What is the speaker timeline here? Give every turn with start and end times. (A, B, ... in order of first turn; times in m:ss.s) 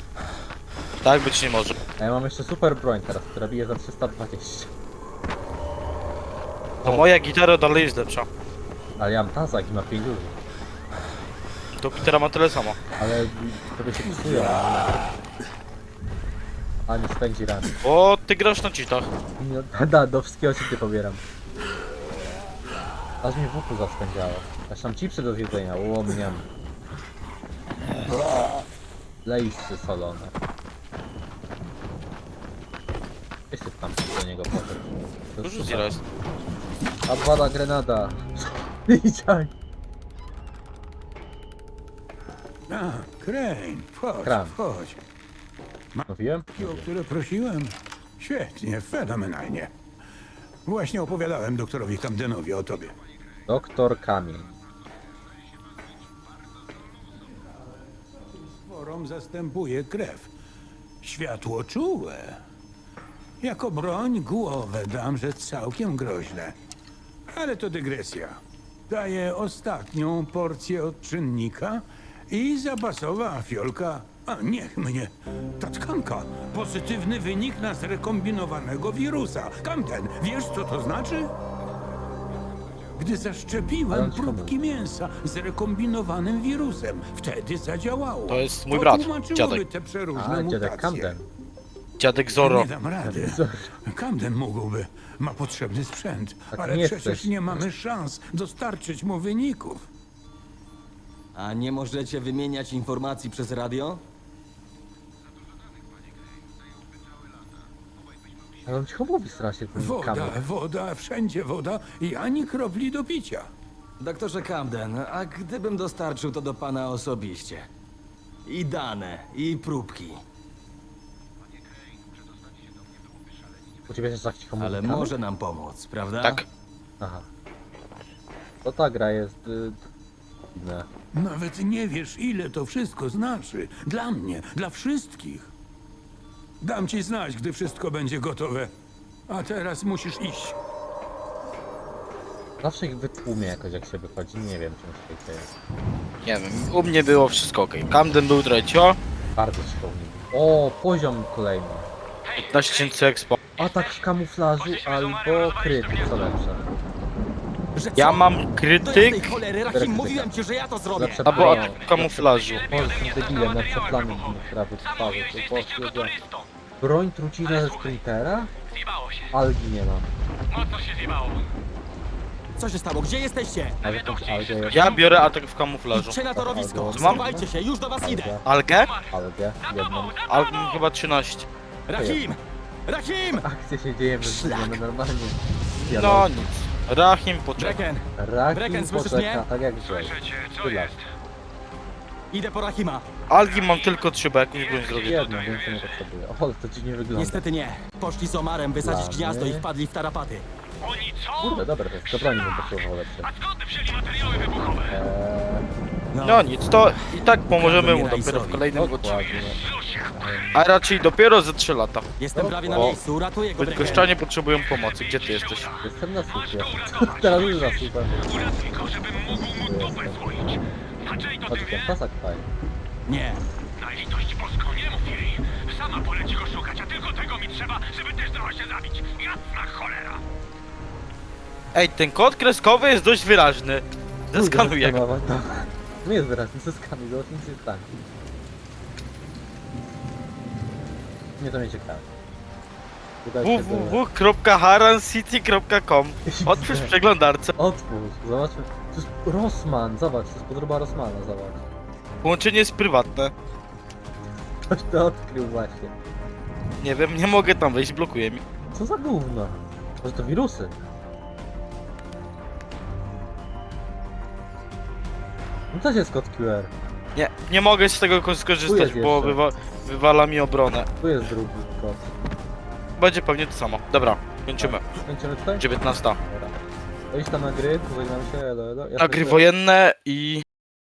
0:01.0-0:01.8 A
0:02.0-0:04.7 B
0:06.8-0:08.3 A
0:09.0-0:10.4 B
0:11.8-0:12.8 A
0:13.0-0:15.0 B
0:16.9-0:17.7 B
0:17.8-0:19.1 A
0:19.4-0:21.2 B
0:23.2-0:26.5 B
0:29.2-0:30.3 B
0:33.5-0:36.0 B
0:35.4-0:36.0 A
0:37.1-0:39.5 B
0:42.7-0:45.0 C
0:44.2-0:44.6 B
0:46.0-0:49.7 C
0:46.1-0:46.9 B
0:50.7-0:52.9 C
0:53.5-0:54.5 B
0:58.3-1:00.3 C
1:01.0-1:02.4 C
1:03.4-1:06.6 C
1:07.3-1:21.3 C
1:23.0-1:31.2 C
1:23.9-1:24.6 B
1:28.3-1:29.6 A
1:30.1-1:31.3 B
1:32.0-1:32.7 A
1:32.4-1:39.9 C
1:33.0-1:33.7 B
1:36.5-1:37.7 B
1:41.4-1:44.0 D
1:45.7-1:46.1 E
1:46.8-1:47.4 E
1:48.7-1:50.4 B
1:49.7-1:53.5 C
1:54.0-1:57.7 D
1:58.5-2:00.2 D
2:01.6-2:03.6 E
2:03.9-2:05.2 B
2:04.6-2:06.4 D
2:07.0-2:07.3 B
2:08.6-2:09.8 B
2:10.5-2:10.9 B
2:11.1-2:15.5 C
2:16.6-2:18.7 C
2:19.3-2:20.6 C
2:22.6-2:25.5 B
2:26.2-2:29.0 A
2:29.4-2:31.9 B
2:32.3-2:33.0 E
2:32.4-2:33.4 A
2:33.6-2:36.6 B
2:34.6-2:36.6 E
2:37.8-2:42.3 D
2:38.0-2:39.2 A
2:39.7-2:40.3 B
2:40.9-2:41.8 B
2:41.3-2:42.7 A
2:42.4-2:46.5 E
2:42.7-2:46.1 B
2:46.8-2:48.5 B
2:47.4-2:48.1 E
2:48.7-2:49.3 E
2:49.3-2:50.1 B
2:50.5-2:51.5 E
2:52.6-2:53.8 D
2:53.8-2:55.0 B
2:53.8-2:55.2 E
2:54.7-2:56.2 A
2:55.9-2:58.4 D
2:56.3-2:57.5 B
2:57.0-2:57.2 A
2:58.0-2:58.4 B
2:58.5-2:58.9 A
2:58.9-3:00.8 E
2:59.1-3:00.1 B
3:00.3-3:01.5 A
3:01.9-3:03.5 D
3:02.0-3:02.2 B
3:03.4-3:06.6 B
3:04.2-3:04.8 D
3:05.8-3:07.8 A
3:07.6-3:09.5 D
3:08.2-3:11.0 B
3:09.8-3:11.1 E
3:12.3-3:13.1 D
3:13.3-3:15.3 A
3:13.5-3:16.1 E
3:15.0-3:17.4 B
3:17.2-3:20.5 D
3:18.8-3:19.7 B
3:20.8-3:22.7 E
3:21.4-3:23.3 B
3:23.3-3:25.0 E
3:24.9-3:25.7 B
3:26.1-3:28.6 D
3:26.2-3:29.2 A
3:28.7-3:30.6 B
3:29.3-3:30.2 E
3:30.5-3:32.0 A
3:32.2-3:34.1 D
3:32.3-3:33.0 B
3:33.6-3:35.7 A
3:35.1-3:41.9 E
3:35.8-3:38.3 B
3:39.3-3:40.4 B
3:41.5-3:42.5 B
3:43.1-3:43.4 D
3:43.8-3:50.2 E
3:51.7-3:55.0 A
3:54.3-3:57.9 B
4:01.4-4:02.1 B
4:03.2-4:04.0 B
4:03.4-4:07.5 A
4:06.3-4:06.9 B
4:07.6-4:11.6 B
4:12.2-4:13.3 A
4:14.7-4:15.9 B
4:16.8-4:18.4 A
4:18.7-4:20.8 B
4:25.7-4:26.7 B
4:27.2-4:30.9 A
4:28.7-4:29.4 B
4:31.0-4:32.1 B
4:33.0-4:34.8 A
4:34.6-4:35.7 B
4:35.6-4:36.2 A
4:36.2-4:39.4 B
4:39.0-4:40.4 A